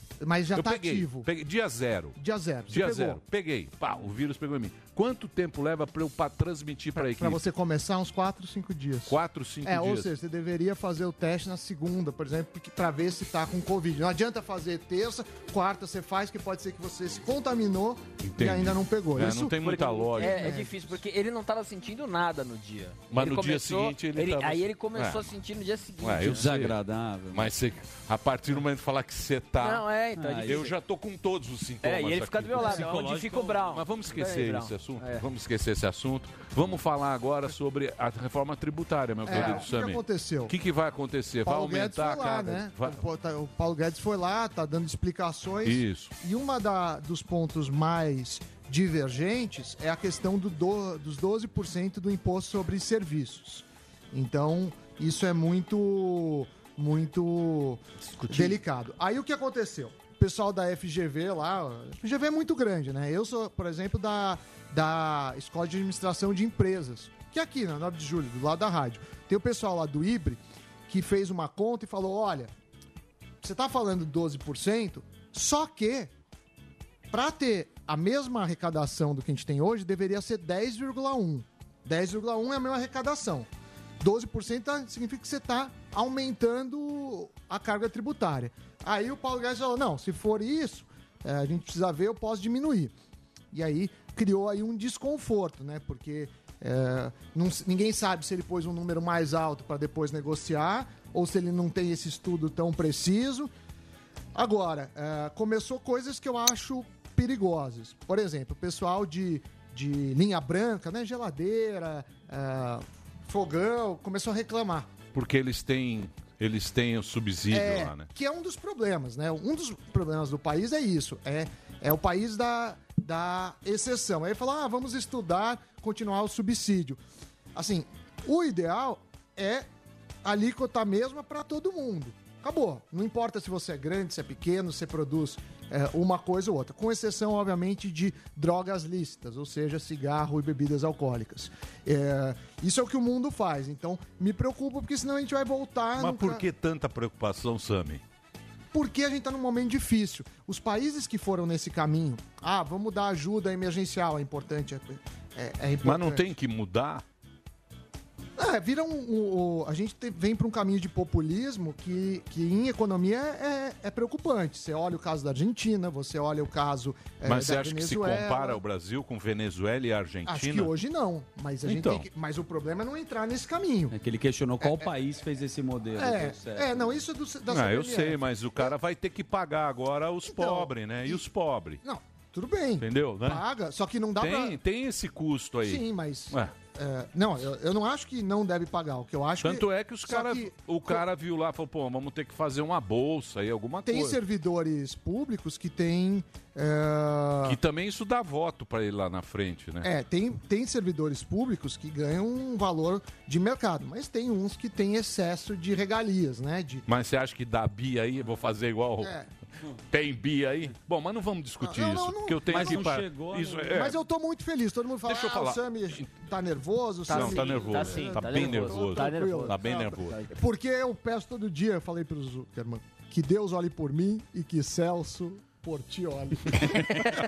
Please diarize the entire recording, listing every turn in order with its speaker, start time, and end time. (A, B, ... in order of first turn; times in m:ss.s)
0:00.2-0:01.3 A
0:00.5-0:02.2 B
0:02.2-0:03.2 A
0:02.7-0:07.4 B
0:07.0-0:19.6 A
0:09.1-0:10.1 B
0:18.2-0:20.6 B
0:19.6-0:26.5 C
0:20.2-0:20.8 A
0:23.1-0:25.3 B
0:26.0-0:26.8 B
0:26.2-0:27.5 D
0:27.3-0:32.8 B
0:29.6-0:30.7 C
0:30.1-0:30.7 D
0:31.8-0:35.2 C
0:32.5-0:33.7 D
0:33.7-0:43.0 B
0:39.2-0:40.5 A
0:41.4-1:12.5 A
0:45.6-0:46.1 B
1:13.4-1:16.1 A
1:17.1-1:23.5 A
1:24.0-1:32.9 A
1:33.5-1:43.5 A
1:44.3-1:54.9 A
1:55.1-1:58.1 B
1:57.5-2:07.0 A
2:07.5-2:09.6 A
2:10.2-2:26.4 A
2:26.0-2:28.0 B
2:28.7-2:36.2 A
2:35.8-2:37.0 B
2:38.4-2:48.6 A
2:47.2-2:50.7 B
2:50.2-2:53.9 A
2:51.6-2:52.0 B
2:53.9-2:56.9 D
2:54.6-2:54.9 A
2:56.0-2:58.7 A
2:57.5-3:01.8 B
3:00.2-3:01.2 A
3:01.8-3:04.6 A
3:02.8-3:03.4 B
3:04.2-3:06.5 B
3:05.6-3:11.0 A
3:09.4-3:14.2 B
3:13.8-3:17.6 A
3:17.4-3:19.9 B
3:19.8-3:26.8 A
3:26.9-3:29.1 B
3:29.0-3:29.3 A
3:29.9-3:34.0 B
3:31.6-3:32.9 A
3:32.5-3:33.8 D
3:33.7-3:47.0 A
3:35.0-3:36.0 B
3:37.1-3:40.2 B
3:37.1-3:40.3 C